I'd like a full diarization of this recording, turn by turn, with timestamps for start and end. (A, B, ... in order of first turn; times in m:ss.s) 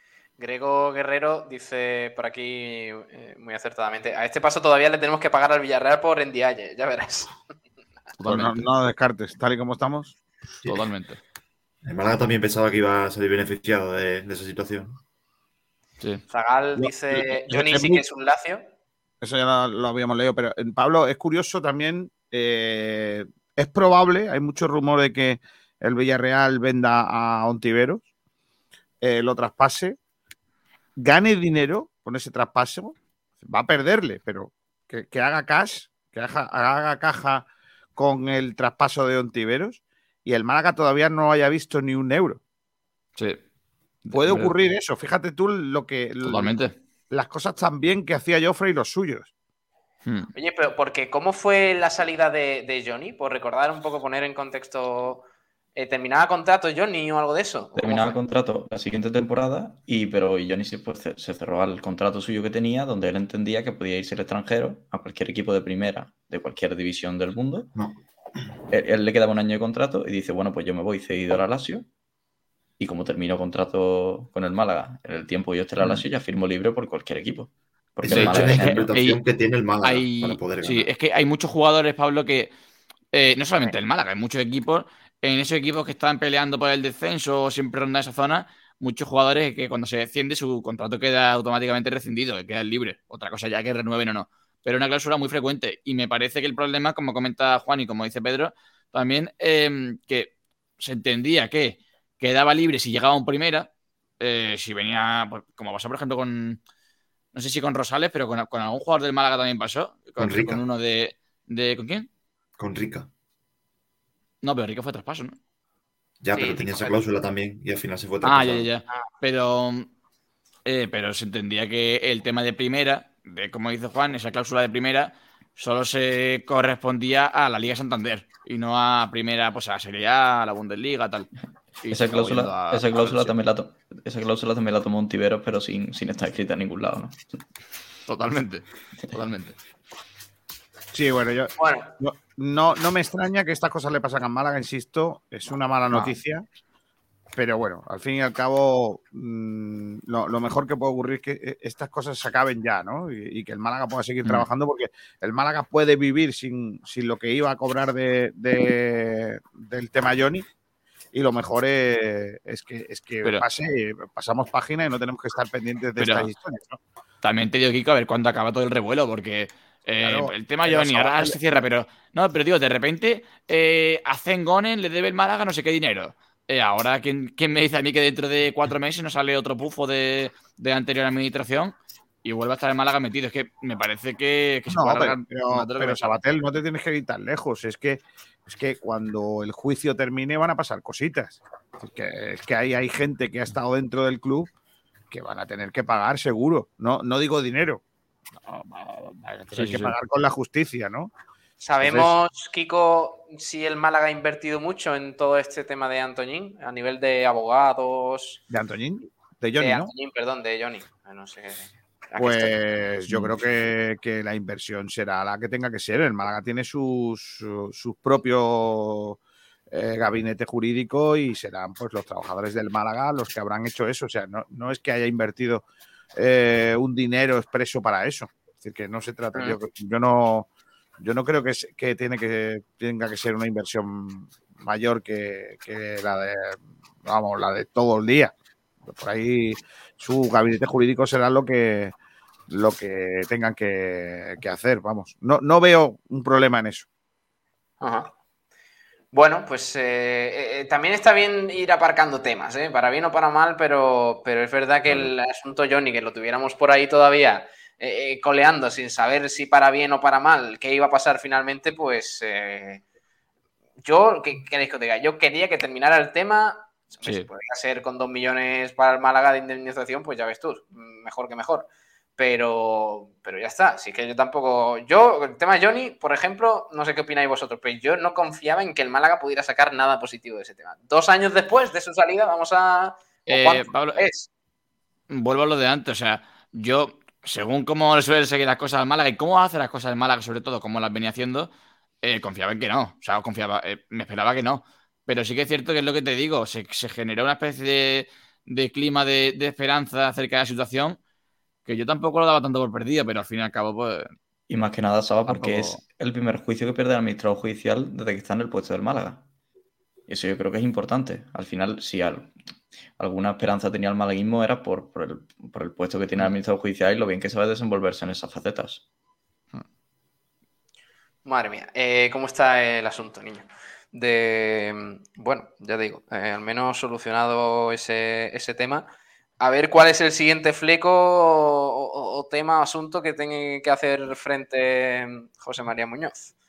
0:00.4-0:07.4 A
0:08.2-0:08.7 B
0:08.2-0:10.2 C
0:10.7-0:11.2 B
0:11.8-0:15.0 D
0:16.3-0:18.6 A
0:16.8-0:18.0 C
0:19.2-0:28.0 C
0:29.0-0:30.0 C
0:31.0-0:42.4 C
0:44.0-0:44.5 B
0:44.1-0:46.5 C
0:46.2-0:46.7 B
0:47.1-0:49.3 C
0:50.0-0:50.3 B
0:50.4-0:58.2 A
0:57.8-1:07.7 E
1:08.7-1:11.9 E
1:12.8-1:18.9 E
1:18.0-1:20.9 D
1:18.1-1:19.2 B
1:19.8-1:22.5 B
1:23.1-1:43.7 B
1:44.2-1:46.6 B
1:47.3-1:52.1 B
1:50.2-1:50.6 D
1:52.6-1:53.1 D
1:54.4-1:55.4 B
1:56.2-1:58.7 D
1:56.3-1:57.0 A
1:58.2-1:59.9 B
2:00.7-2:11.3 B
2:11.8-2:13.4 B
2:11.9-2:17.2 E
2:18.1-2:19.6 B
2:20.9-2:26.4 C
2:21.6-2:21.9 A
2:27.3-2:40.5 C
2:41.1-2:46.8 C
2:46.0-2:46.3 B
2:47.2-3:06.2 B
2:50.0-2:51.4 C
3:04.7-3:14.5 C
3:15.1-3:17.8 C
3:18.5-3:20.0 B
3:19.2-3:21.1 C
3:21.6-3:28.4 A
3:21.8-3:22.2 C
3:28.5-3:29.9 C
3:29.6-3:32.6 A
3:32.2-3:39.2 C
3:39.7-3:45.6 C
3:46.2-3:50.5 C
3:51.0-3:58.3 C
3:58.9-4:02.0 C
4:02.5-4:06.9 C
4:07.8-4:08.1 A
4:09.1-4:22.8 A
4:23.8-4:44.3 A
4:43.3-4:44.1 B
4:45.1-4:51.5 B
4:52.0-5:01.0 B
5:01.7-5:04.1 B
5:04.5-5:09.2 E
5:05.3-5:05.8 B
5:10.1-5:12.3 E
5:13.0-5:18.8 E
5:21.2-5:28.9 A
5:29.4-5:36.3 A